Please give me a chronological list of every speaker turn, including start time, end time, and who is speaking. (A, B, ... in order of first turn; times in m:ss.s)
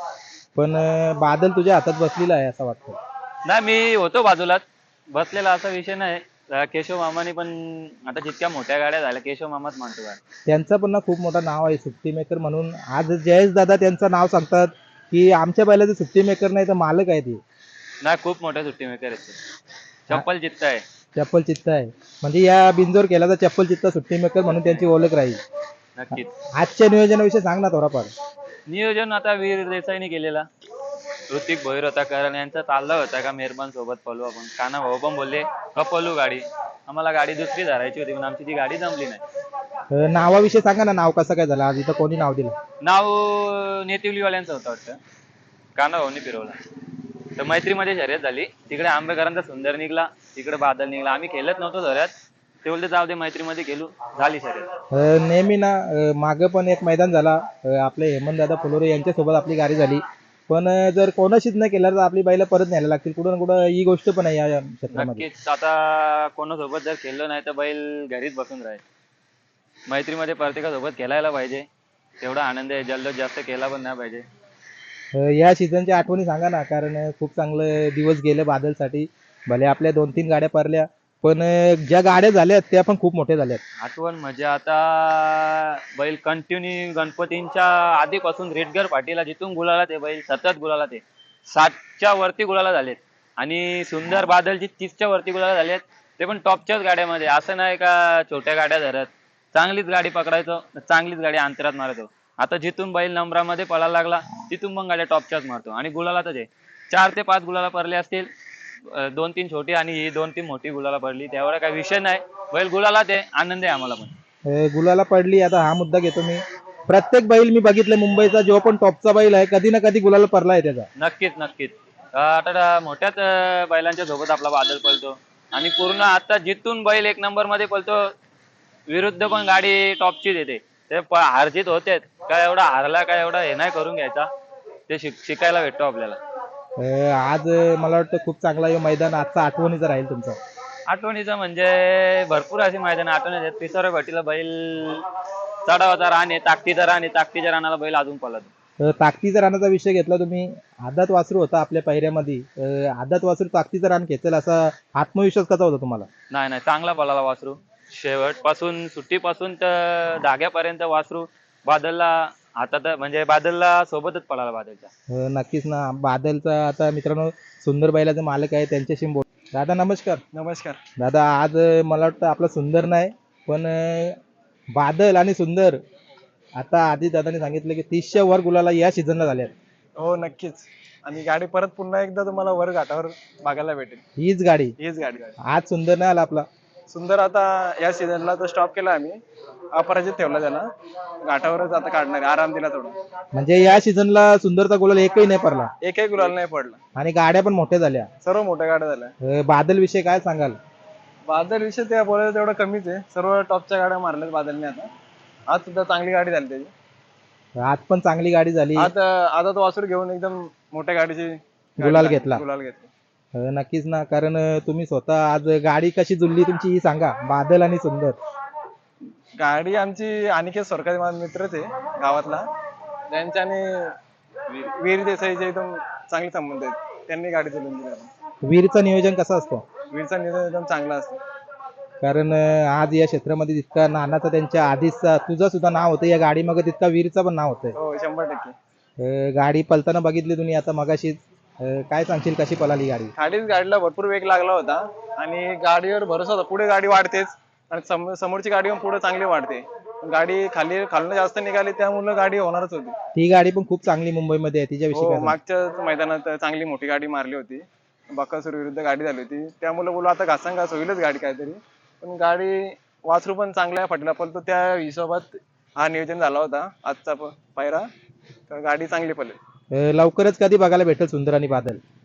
0:00.6-0:03.0 A
0:03.5-0:10.2 B
0:10.5-0:17.4 A
0:18.0-0:19.4 B
0:20.1-0:20.8 B
0:21.2-0:25.4 A
0:26.0-0:26.3 B
0:26.6-0:28.1 A
0:28.7-0:30.5 B
0:31.3-0:39.2 B
0:39.9-0:42.5 A
0:42.8-0:45.0 B
0:45.8-0:46.6 B
0:47.4-0:52.1 B
0:52.6-0:54.7 B
0:54.9-1:05.3 A
1:04.9-1:08.8 B
1:09.9-1:11.7 B
1:12.2-1:14.2 B
1:15.1-1:23.6 A
1:23.8-1:48.3 B
1:48.9-1:54.1 B
1:54.5-2:00.9 A
2:01.0-2:08.0 B
2:08.9-2:14.3 B
2:14.9-2:16.2 B
2:16.8-2:20.4 A
2:20.9-2:25.1 B
2:25.6-2:28.5 B
2:28.8-2:36.1 A
2:36.3-2:44.9 B
2:45.1-2:50.2 A
2:50.3-2:50.8 C
2:51.0-2:54.2 A
2:54.8-2:55.8 A
2:56.6-2:59.6 A
3:00.0-3:04.0 C
3:04.2-3:04.8 A
3:04.8-3:05.3 C
3:05.5-3:06.5 A
3:06.9-3:09.2 C
3:09.7-3:10.7 C
3:11.2-3:13.0 C
3:13.3-3:15.7 A
3:15.8-3:16.8 C
3:17.0-3:18.1 A
3:18.2-3:19.1 C
3:19.2-3:20.6 A
3:21.3-3:24.9 C
3:25.5-3:26.7 C
3:27.6-3:28.9 A
3:28.8-3:32.9 C
3:31.8-3:32.4 A
3:33.4-3:38.2 A
3:39.4-3:42.5 C
3:43.1-3:44.0 C
3:44.5-3:48.1 C
3:48.4-3:49.6 A
3:49.9-3:51.2 C
3:52.0-3:57.8 A
3:57.8-3:58.5 C
3:59.0-4:03.1 A
4:03.2-4:12.9 C
4:13.2-4:15.4 A
4:14.9-4:27.9 C
4:28.5-4:29.4 C
4:29.7-4:31.8 A